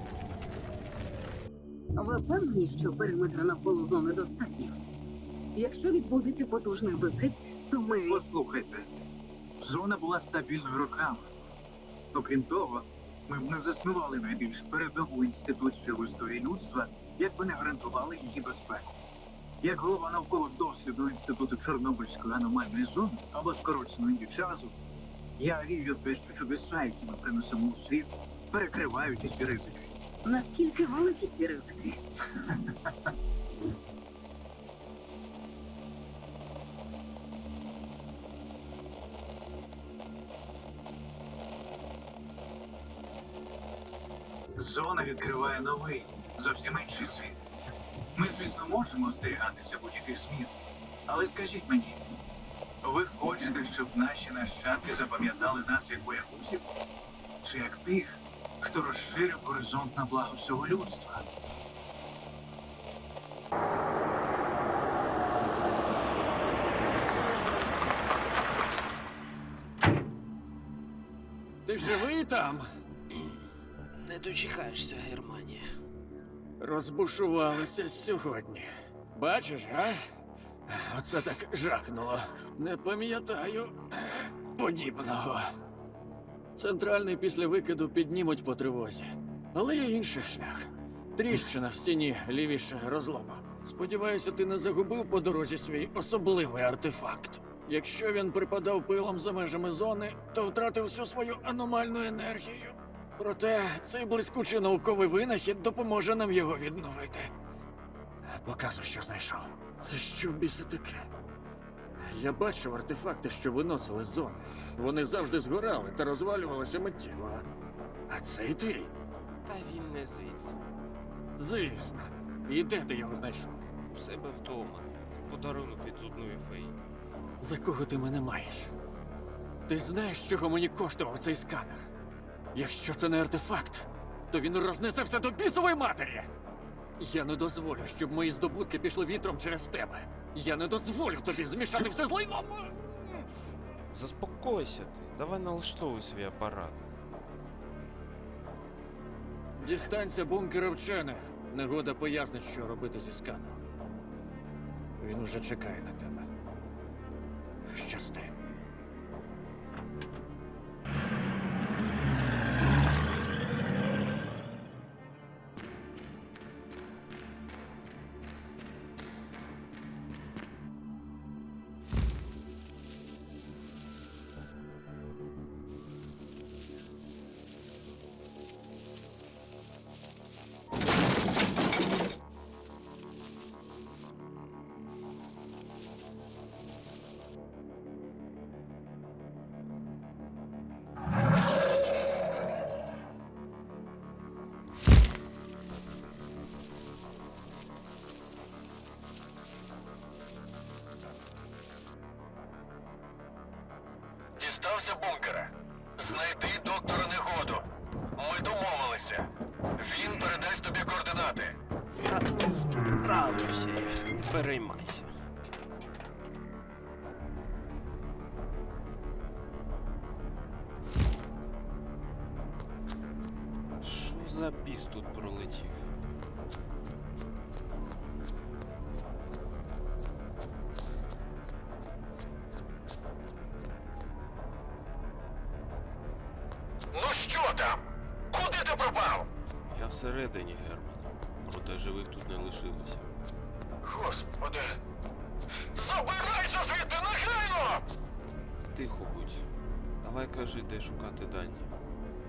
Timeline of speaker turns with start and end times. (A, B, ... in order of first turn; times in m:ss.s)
0:02.0-0:04.8 A
0:05.6-0:08.2 A
0:08.0-0:08.8 B
0:09.6-0:11.2 B
0:12.1-0:19.0 B
0:19.6-0:24.8 B
0:25.4-0:29.9 B
0:30.2-0:32.0 A
0:44.6-0:47.4 B
0:48.2-0:50.5 B
0:51.1-0:52.0 B
0:52.8-0:56.6 B
0:57.4-1:01.2 B
1:11.6-1:12.7 C
1:13.1-1:13.4 D
1:14.0-1:15.6 D
1:16.6-1:20.0 C
1:20.7-1:25.5 C
1:26.6-1:47.3 C
1:48.3-1:51.1 C
1:52.0-1:57.5 C
1:58.1-1:58.9 C
1:59.4-2:00.6 D
2:01.4-2:03.6 C
2:03.9-2:06.8 D
2:07.4-2:08.7 C
2:09.7-2:11.9 C
2:12.5-2:16.3 C
2:17.0-2:23.3 C
2:23.9-2:26.8 D
2:29.6-2:33.6 C
2:35.0-2:36.3 C
2:37.7-2:38.3 C
3:24.4-3:31.6 E
3:32.0-3:35.1 D
3:43.8-3:45.9 D
3:56.9-3:57.8 E
3:58.3-3:59.3 E
3:59.7-4:03.1 D
4:03.8-4:04.8 E
4:05.7-4:07.8 E
4:08.7-4:09.4 D
4:10.0-4:11.7 D